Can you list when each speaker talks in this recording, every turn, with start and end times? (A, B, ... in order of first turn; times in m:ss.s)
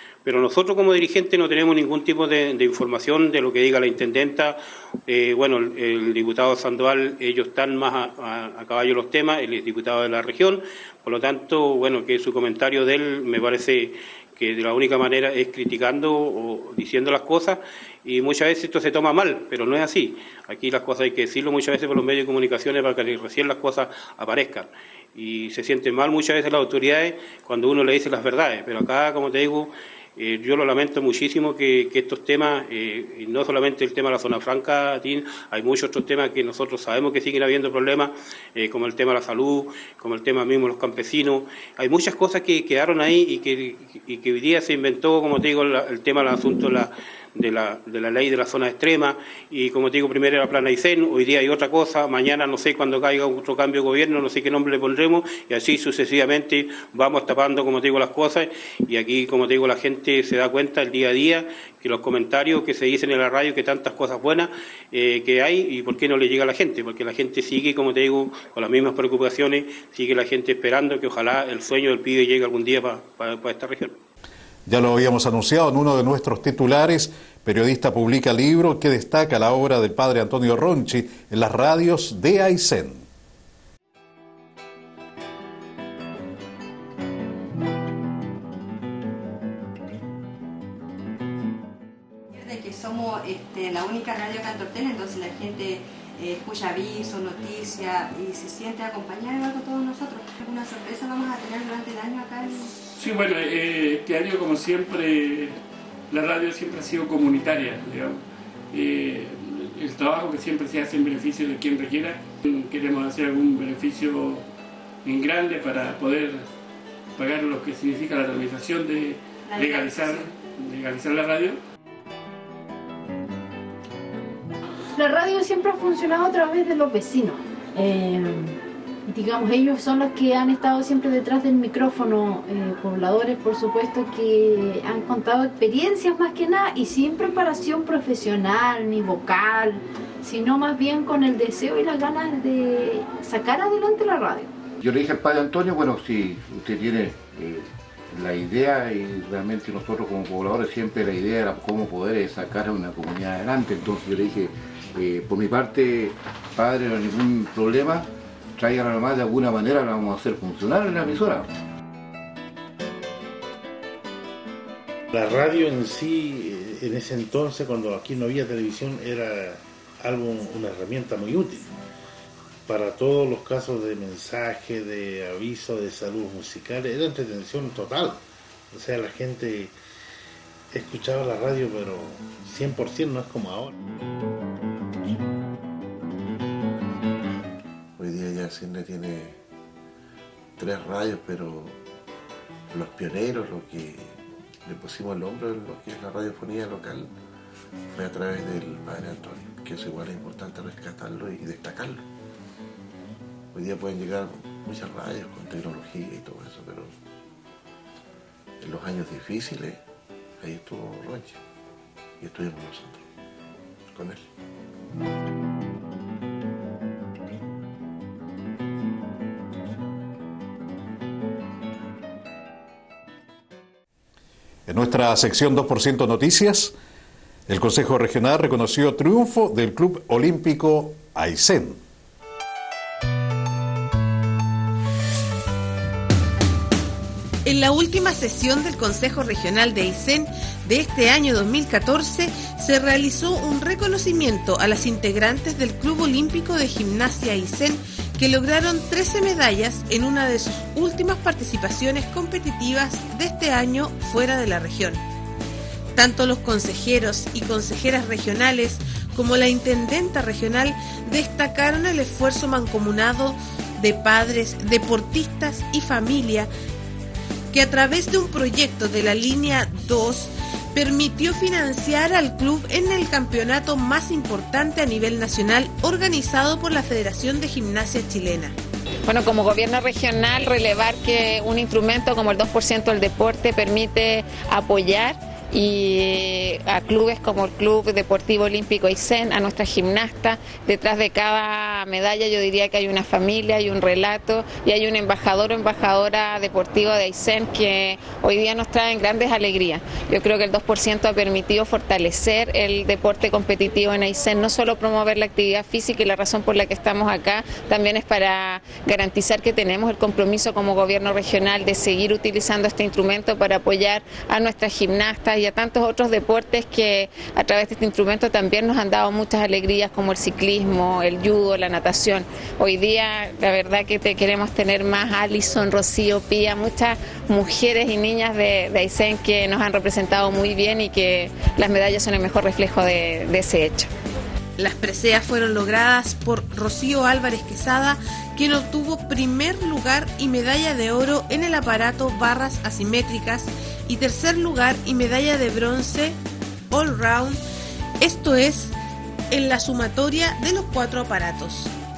0:00.2-1:14.0 A
1:14.7-1:23.0 B
1:32.3-1:42.8 C
1:43.0-1:45.6 D
1:46.1-1:54.4 D
1:55.0-1:56.4 D
1:57.2-2:01.6 D
1:59.4-2:00.3 C
2:05.0-2:24.5 E
2:24.8-2:41.5 F
2:45.1-2:51.7 G
2:52.7-2:59.7 G
3:00.7-3:03.7 G
3:08.0-3:09.4 H
3:10.6-3:11.8 H
3:12.7-3:17.1 H
3:17.9-3:22.0 H
3:23.5-3:26.9 H
3:28.6-3:29.8 H
3:30.4-3:31.4 H
3:32.2-3:33.0 H
3:33.9-3:34.3 H
3:44.7-3:46.7 B
3:47.5-3:51.8 B
3:57.4-4:15.0 I
4:16.0-4:26.5 I
4:27.5-4:38.5 I
4:39.1-5:33.9 J
5:34.6-5:46.2 I
5:46.7-5:47.4 I
5:48.0-5:48.8 I
5:49.3-5:51.7 I